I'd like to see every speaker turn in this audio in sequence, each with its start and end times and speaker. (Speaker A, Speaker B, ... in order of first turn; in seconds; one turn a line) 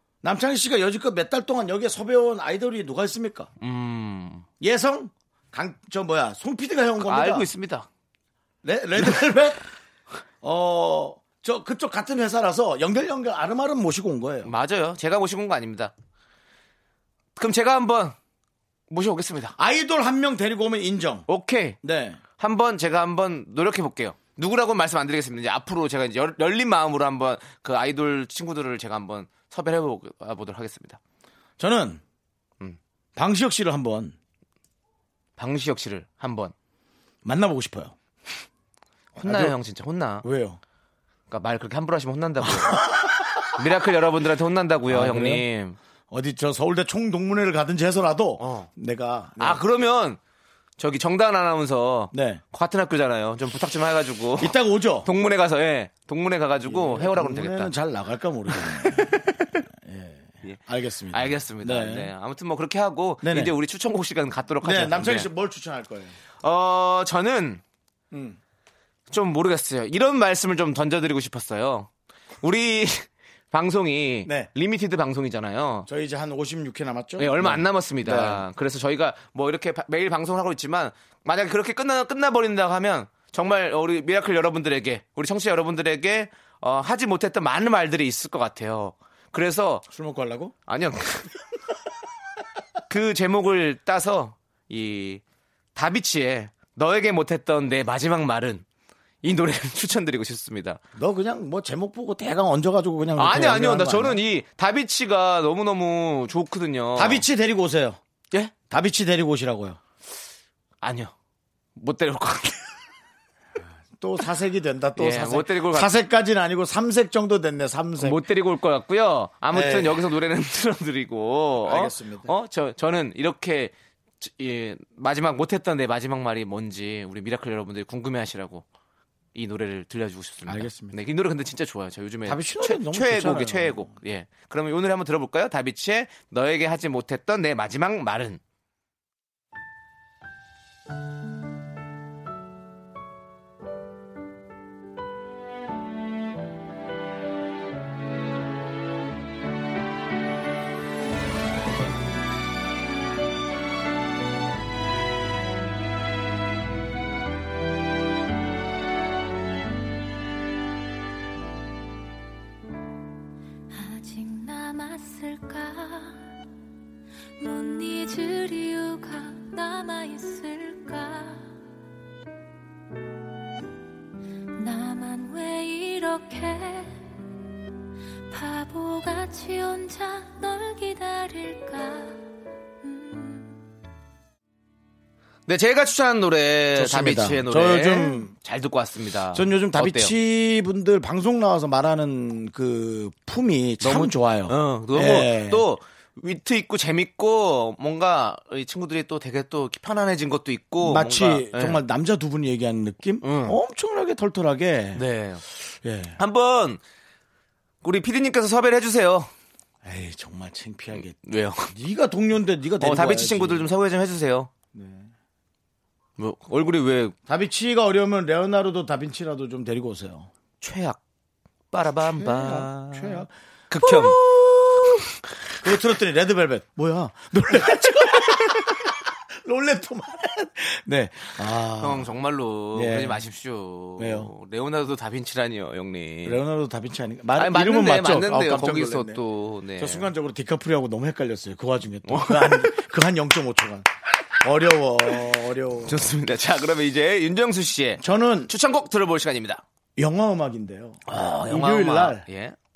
Speaker A: 0.2-3.5
Speaker B: 3.6-4.5
Speaker A: 4.6-7.5
Speaker B: 7.0-7.9
Speaker A: 8.6-9.6
Speaker A: 10.4-14.5
Speaker B: 14.4-15.9
Speaker B: 17.4-18.2
Speaker B: 18.9-19.6
Speaker A: 19.6-21.3
Speaker B: 21.3-21.8
Speaker A: 21.8-22.2
Speaker B: 22.4-31.0
Speaker A: 31.6-32.0
Speaker A: 33.2-34.2
Speaker B: 35.4-36.5
Speaker A: 37.2-38.0
Speaker B: 39.1-40.2
Speaker A: 39.2-39.6
Speaker A: 40.2-40.6
Speaker B: 41.3-45.8
Speaker A: 42.4-43.3
Speaker A: 44.9-45.5
Speaker A: 46.1-49.6
Speaker B: 48.4-48.7
Speaker B: 49.4-50.2
Speaker B: 50.8-57.7
Speaker A: 52.1-52.4
Speaker A: 54.4-55.1
Speaker A: 56.6-62.1
Speaker B: 58.5-59.2
Speaker B: 61.1-65.3
Speaker A: 63.2-63.5
Speaker A: 64.6-66.2
Speaker B: 66.4-67.6
Speaker A: 68.1-68.4
Speaker B: 69.1-71.9
Speaker B: 72.4-75.9
Speaker A: 74.2-74.5
Speaker A: 75.9-78.5
Speaker B: 77.2-89.9
Speaker A: 89.9-90.5
Speaker B: 90.7-91.3
Speaker B: 92.9-95.2
Speaker B: 95.8-98.7
Speaker B: 99.2-100.8
Speaker A: 101.0-104.2
Speaker B: 103.2-107.2
Speaker A: 107.0-108.0
Speaker A: 108.7-109.8
Speaker B: 110.8-111.1
Speaker B: 111.8-112.7
Speaker A: 114.0-118.2
Speaker B: 115.0-115.9
Speaker B: 118.0-128.7
Speaker A: 119.5-120.0
Speaker A: 121.6-122.3
Speaker B: 129.3-138.4
Speaker A: 130.5-131.0
Speaker A: 132.2-133.9
Speaker C: 163.8-166.1
Speaker C: 167.4-171.3
Speaker C: 174.6-176.6
Speaker C: 178.3-182.1
Speaker C: 183.0-183.3
Speaker B: 185.5-190.1
Speaker A: 186.8-188.3
Speaker A: 189.3-195.7
Speaker B: 193.8-201.8
Speaker A: 200.8-205.0
Speaker B: 203.2-203.6
Speaker B: 204.9-205.4
Speaker A: 205.7-206.2
Speaker B: 206.2-206.8
Speaker B: 207.8-209.3
Speaker A: 209.8-213.7
Speaker B: 211.0-211.7
Speaker B: 212.8-214.5
Speaker A: 214.7-215.1
Speaker B: 216.2-217.2
Speaker A: 217.3-220.3
Speaker B: 220.6-221.0
Speaker B: 221.7-224.2
Speaker A: 222.0-225.0
Speaker A: 225.6-232.1
Speaker B: 231.8-236.4
Speaker A: 232.7-233.2
Speaker A: 234.0-234.3
Speaker A: 236.2-239.2
Speaker B: 237.4-240.1
Speaker A: 239.8-246.1
Speaker B: 242.1-242.8
Speaker B: 245.8-249.6
Speaker A: 248.0-248.5
Speaker A: 250.0-252.2
Speaker B: 251.1-252.6